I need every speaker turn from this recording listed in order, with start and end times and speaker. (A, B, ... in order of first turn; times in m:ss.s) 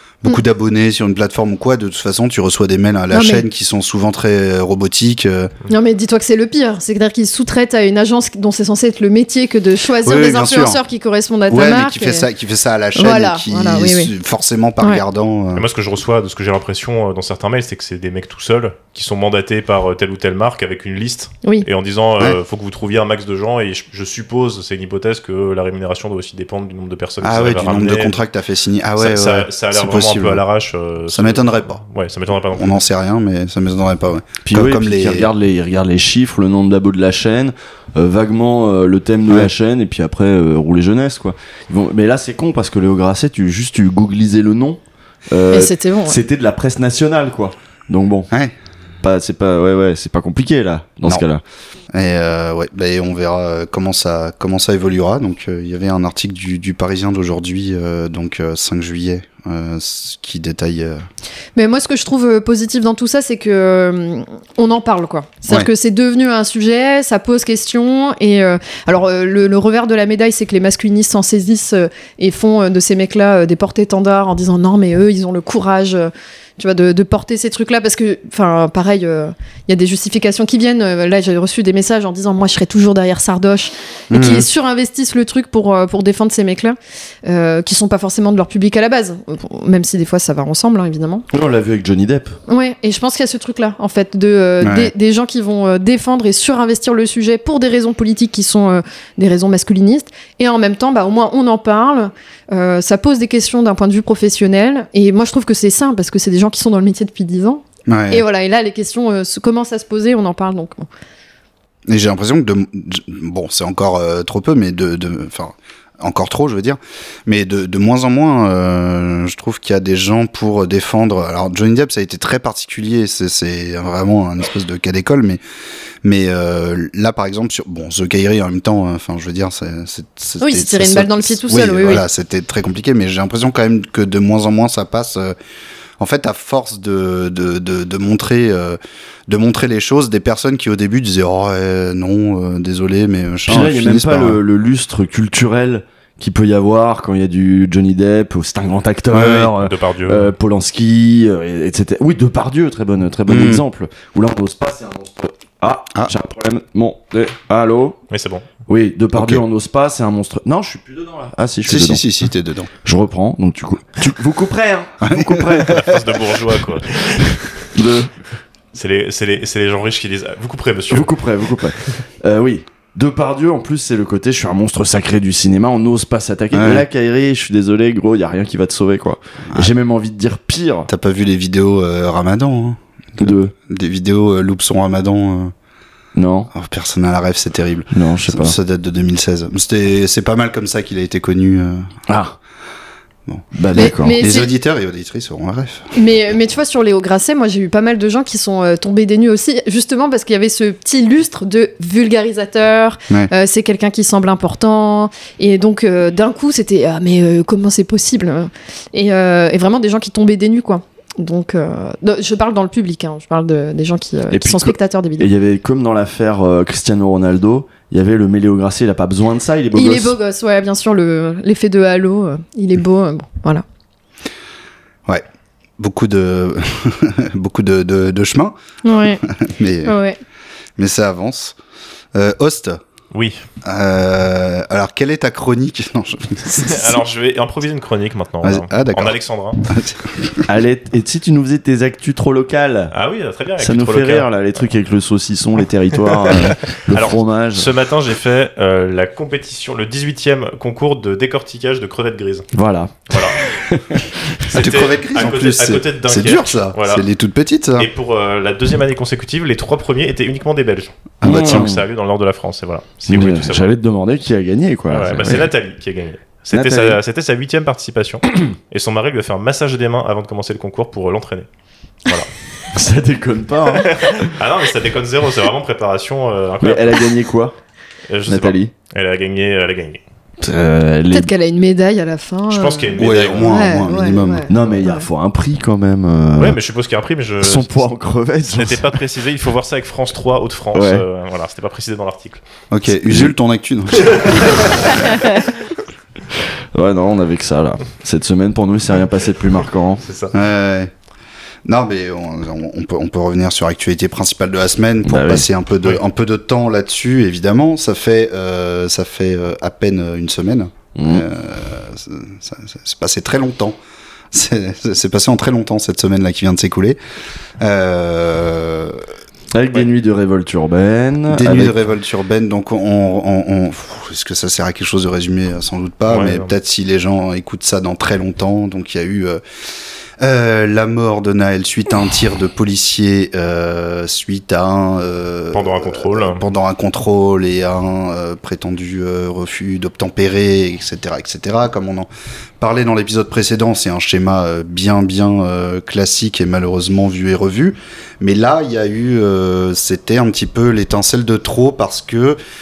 0:00.2-0:05.5 A
0:03.1-0:03.4 B
0:05.7-0:12.3 B
0:10.0-0:10.8 A
0:11.5-0:15.6 A
0:12.9-0:14.1 B
0:15.5-0:28.2 C
0:27.2-0:30.4 A
0:29.0-0:32.8 C
0:31.1-0:31.8 A
0:32.5-0:35.3 A
0:34.4-0:48.3 D
0:45.5-0:46.2 B
0:49.0-0:51.4 D
0:51.9-1:01.0 A
1:01.6-1:31.2 B
1:24.1-1:24.5 A
1:31.3-1:32.4 D
1:32.5-1:50.9 B
1:34.6-1:34.9 A
1:47.9-1:48.2 A
1:51.9-2:05.4 A
2:06.0-2:15.4 A
2:10.4-2:12.0 B
2:16.0-2:24.4 A
2:23.5-2:38.0 D
2:29.1-2:29.5 A
2:29.6-2:30.3 C
2:33.3-2:33.6 A
2:38.1-2:38.4 C
2:38.7-2:42.0 D
2:39.1-2:39.4 A
2:41.6-2:42.7 A
2:42.8-2:45.9 D
2:45.0-2:45.8 A
2:45.7-2:47.7 C
2:47.7-2:48.1 D
2:48.7-2:51.1 C
2:50.9-3:00.9 D
2:56.5-2:56.8 A
3:00.9-3:05.5 A
3:03.2-3:03.5 D
3:06.1-3:06.5 D
3:06.5-3:11.9 A
3:07.9-3:08.6 D
3:12.1-3:12.4 D
3:13.3-3:15.9 A
3:13.5-3:14.2 D
3:13.7-3:14.5 B
3:15.9-3:35.3 B
3:34.3-3:40.1 D
3:39.7-3:43.6 B
3:45.8-3:48.5 A
3:48.8-3:49.2 B
3:49.2-3:50.0 A
3:49.8-3:50.2 B
3:50.8-3:51.6 A
3:52.1-3:52.8 A
3:53.1-3:53.4 C
3:53.6-3:57.0 A
3:56.6-3:59.6 C
3:58.4-4:00.4 A
4:00.5-4:02.9 D
4:02.9-4:04.6 C
4:03.6-4:07.7 D
4:06.3-4:12.5 C
4:12.5-4:14.4 D
4:13.1-4:13.4 C
4:14.5-4:17.0 C
4:14.5-4:17.9 A
4:17.8-4:23.7 C
4:21.2-4:21.7 A
4:21.2-4:21.8 D
4:23.1-4:25.5 D
4:24.9-4:31.4 C
4:26.5-4:27.0 D
4:32.7-4:34.3 D
4:33.8-4:37.1 C
4:36.6-4:37.6 D
4:38.1-4:40.0 C
4:38.3-4:38.7 D
4:40.4-4:41.3 D
4:41.1-4:45.0 B
4:42.5-4:43.6 C
4:43.0-4:44.5 A
4:44.5-4:46.6 D
4:46.4-4:47.9 C
4:47.4-4:49.0 D
4:48.5-4:52.4 C
4:50.7-4:51.0 D
4:52.7-4:54.6 A
4:54.0-4:55.1 C
4:56.7-5:00.0 D
5:00.0-5:00.3 C
5:00.3-5:00.9 A
5:01.6-5:13.8 A
5:05.0-5:05.5 D
5:11.0-5:11.2 D
5:14.3-5:17.0 A
5:17.6-5:19.0 A
5:19.5-5:21.7 D
5:21.3-5:29.4 A
5:26.1-5:26.5 C
5:30.2-5:42.1 A
5:35.5-5:36.4 C
5:42.6-5:52.4 A